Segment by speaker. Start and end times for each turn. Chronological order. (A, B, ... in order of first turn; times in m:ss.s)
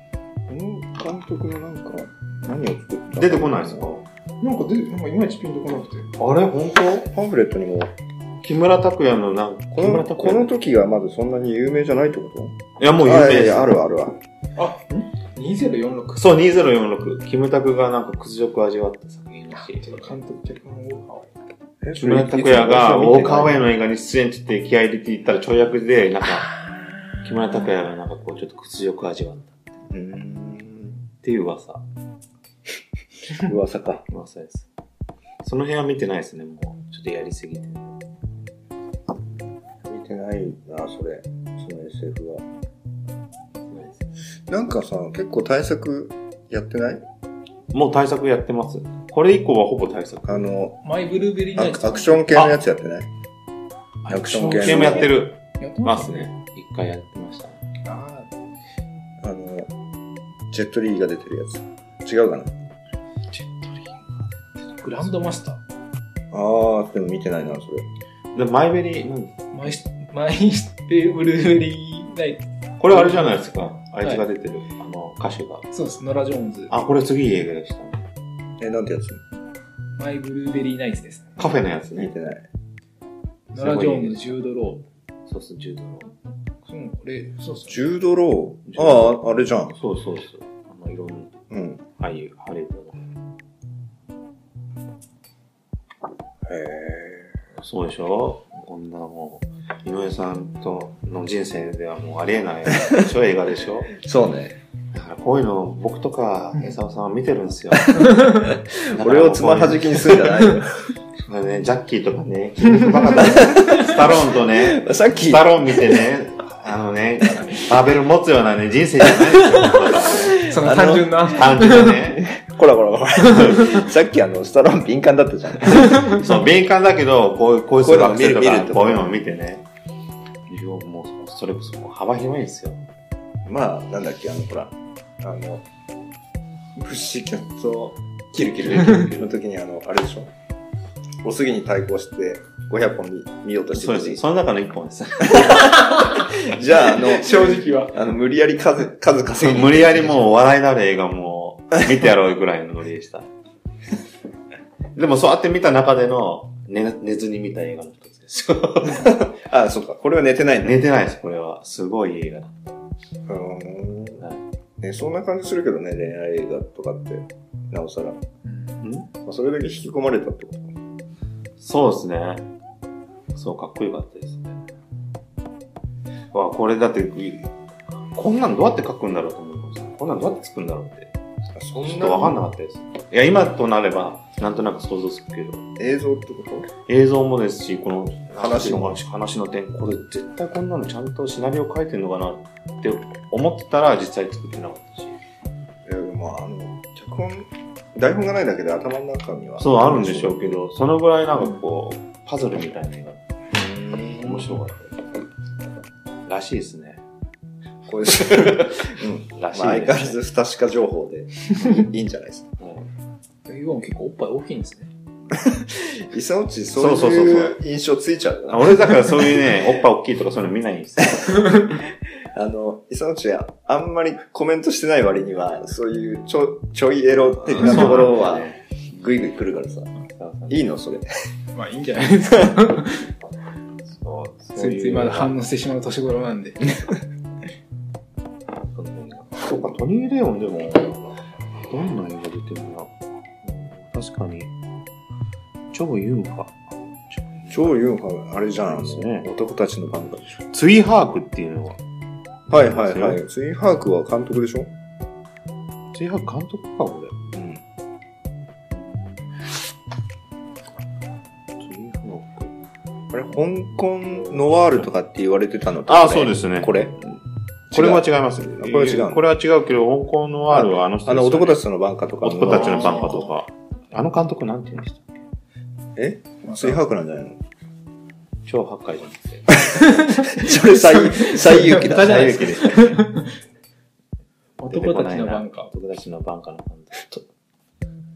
0:00.5-0:03.9 A
0:03.2-0:04.0 B
0:04.4-0:06.1 C
0:06.2-0:07.1 B
0:07.1-0:07.9 A
0:08.4-0:10.5 B
0:09.7-0:14.2 A
0:12.8-0:13.8 B
0:14.6-0:16.3 C
0:16.2-0:19.9 B
0:19.7-0:21.3 C
0:21.8-0:23.6 A
0:22.0-0:26.5 B
0:27.2-0:29.6 B
0:29.9-0:31.0 A
0:31.2-0:31.8 B
0:33.4-0:34.0 A
0:34.1-0:34.7 B
0:35.4-0:38.0 B
0:39.8-0:42.4 A
0:43.7-0:44.0 B
0:44.5-0:47.0 A
0:47.7-0:50.5 B
0:50.3-0:50.8 A
0:50.8-0:52.5 C
0:51.6-0:53.1 A
0:54.1-0:57.6 B
0:54.1-0:55.1 A
0:54.1-0:56.3 C
0:57.8-0:58.3 C
0:59.2-0:59.7 A
1:00.5-1:02.5 A
1:03.5-1:03.9 B
1:04.8-1:05.6 C
1:06.3-1:07.9 A
1:08.3-1:09.4 B
1:09.5-1:13.4 C
1:12.8-1:15.7 B
1:15.7-1:16.7 C
1:16.7-1:18.0 B
1:18.6-1:19.2 A
1:20.0-1:21.4 C
1:21.4-1:22.1 B
1:22.0-1:22.5 A
1:23.5-1:24.8 C
1:23.6-1:24.3 B
1:25.3-1:26.1 B
1:26.7-1:27.8 C
1:27.7-1:29.8 A
1:28.7-1:31.4 B
1:31.5-1:31.8 A
1:32.0-1:33.0 B
1:36.5-1:37.3 A
1:37.6-1:43.9 B
1:43.9-1:44.6 A
1:44.9-1:48.2 B
1:48.5-1:50.7 A
1:48.8-1:50.3 B
1:51.2-2:00.4 B
1:53.2-1:56.0 A
2:00.2-2:02.1 C
2:00.4-2:01.2 A
2:01.2-2:02.2 B
2:01.8-2:06.2 A
2:03.3-2:03.7 C
2:05.9-2:09.6 B
2:07.8-2:09.1 A
2:10.5-2:12.8 B
2:13.4-2:15.7 A
2:16.8-2:20.3 A
2:18.6-2:19.3 B
2:21.2-2:24.2 A
2:23.7-2:25.7 B
2:25.3-2:30.2 A
2:25.5-2:26.3 C
2:26.9-2:28.0 C
2:29.4-2:33.3 B
2:35.0-2:39.2 B
2:38.9-2:40.8 A
2:40.6-2:42.8 B
2:43.3-2:44.2 A
2:44.8-2:48.2 A
2:48.4-2:48.8 C
2:48.8-2:49.1 B
2:49.2-2:50.7 A
2:51.6-2:52.5 B
2:53.3-2:54.6 B
2:56.3-2:57.5 B
2:58.1-3:01.1 B
3:01.6-3:02.4 A
3:01.8-3:05.6 B
3:05.8-3:06.7 A
3:06.9-3:15.2 B
3:08.3-3:09.0 A
3:15.8-3:20.6 A
3:19.6-3:23.2 B
3:23.5-3:24.6 A
3:24.2-3:25.0 B
3:26.3-3:27.0 B
3:27.9-3:32.5 A
3:28.1-3:30.2 B
3:32.6-3:32.9 B
3:33.5-3:34.9 C
3:35.3-3:39.2 A
3:36.7-3:37.6 B
3:38.5-3:41.5 B
3:42.3-3:49.9 A
3:47.4-3:49.1 B
3:50.0-3:50.6 B
3:50.5-3:51.1 A
3:51.5-3:53.1 C
3:53.9-3:55.3 B
3:54.6-3:56.9 C
3:58.7-4:01.0 B
4:01.7-4:02.9 B
4:03.4-4:04.5 B
4:05.7-4:06.6 B
4:07.1-4:07.8 B
4:07.5-4:10.4 A
4:08.6-4:09.3 B
4:10.5-4:11.8 B
4:12.5-4:13.2 B
4:12.5-4:14.7 A
4:15.9-4:17.2 B
4:17.3-4:17.6 A
4:18.7-4:19.3 B
4:21.6-4:22.5 B
4:23.1-4:27.0 A
4:25.9-4:27.2 B
4:27.7-4:29.2 A
4:27.7-4:31.6 B
4:30.5-4:33.3 A
4:32.2-4:35.2 B
4:36.0-4:37.4 A
4:36.4-4:36.8 C
4:38.5-4:39.8 B
4:39.8-4:43.3 C
4:40.3-4:42.6 A
4:41.8-4:43.0 B
4:44.6-4:45.7 C
4:44.7-4:47.2 B